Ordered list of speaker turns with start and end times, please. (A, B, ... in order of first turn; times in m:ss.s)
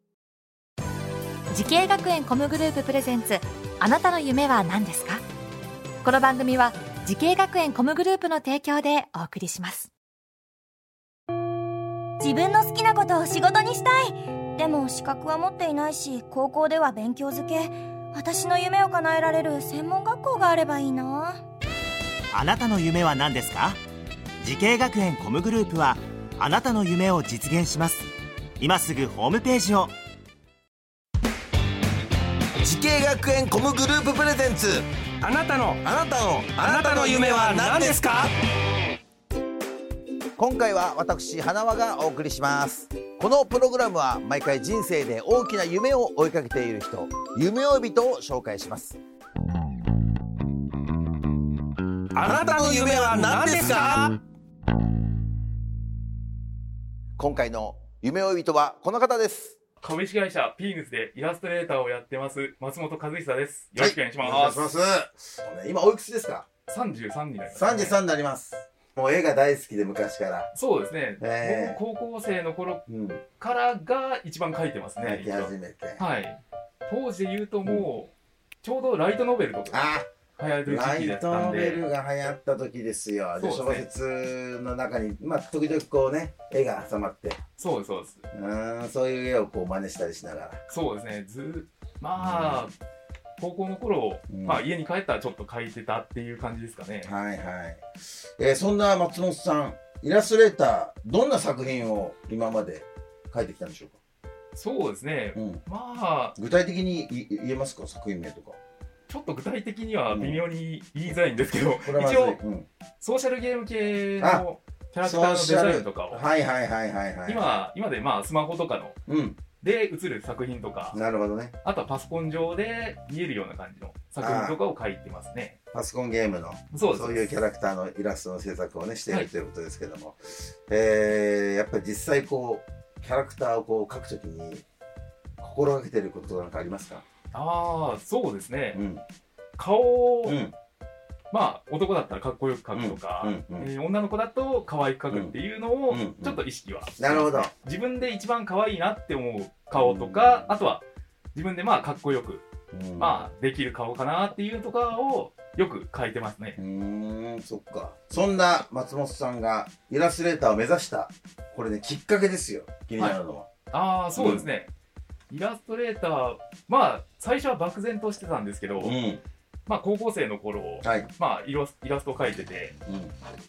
0:01.5-0:05.2 A
0:06.0-0:09.9 A
0:12.2-0:21.4 B
0:22.3-0:23.8 C
0:24.4-0:28.1 C
0:28.6-0:29.9 C
0:32.6-0:34.8 D
0:35.2-0:38.3 E
0:35.8-0:38.0 D
0:40.4-0:49.0 D
0:52.1-0:54.2 E
0:52.2-0:53.9 D
0:57.2-0:59.6 D
0:59.8-1:04.7 F
1:03.8-1:06.4 D
1:06.7-1:08.0 F
1:07.5-1:10.5 D
1:10.5-1:12.8 F
1:11.2-1:11.8 D
1:12.9-1:13.2 D
1:13.4-1:18.1 F
1:15.0-1:16.0 D
1:18.6-1:19.8 F
1:19.7-1:27.4 D
1:20.4-1:21.8 F
1:23.4-1:23.8 F
1:27.6-1:28.2 F
1:28.3-1:30.6 D
1:30.7-1:32.7 F
1:32.2-1:32.7 D
1:33.4-1:37.1 F
1:34.3-1:34.6 D
1:37.0-1:37.9 D
1:38.4-1:44.0 D
1:44.5-1:46.4 F
1:45.3-1:45.6 D
1:46.4-1:48.6 D
1:49.1-1:52.4 F
1:50.1-1:50.4 D
1:51.8-1:52.7 D
1:53.0-1:56.2 F
1:54.2-1:54.4 D
1:55.0-1:57.6 D
1:57.3-1:59.0 F
1:59.0-1:59.4 D
1:59.6-2:01.0 F
2:00.9-2:01.6 D
2:01.6-2:05.6 F
2:04.2-2:04.6 D
2:05.7-2:14.6 D
2:06.7-2:07.3 F
2:15.4-2:17.0 D
2:17.3-2:18.8 F
2:18.7-2:19.0 D
2:19.6-2:20.4 F
2:20.2-2:20.5 D
2:21.3-2:30.8 F
2:22.7-2:23.7 D
2:25.1-2:25.4 D
2:25.9-2:26.4 D
2:27.0-2:27.5 D
2:29.7-2:30.5 D
2:31.3-2:32.4 F
2:32.7-2:33.2 D
2:33.0-2:36.6 F
2:36.6-2:43.5 D
2:43.7-2:44.7 F
2:44.1-2:44.5 D
2:45.3-2:49.0 F
2:48.8-2:49.2 D
2:49.6-2:52.8 F
2:50.8-2:51.1 D
2:52.8-2:53.1 D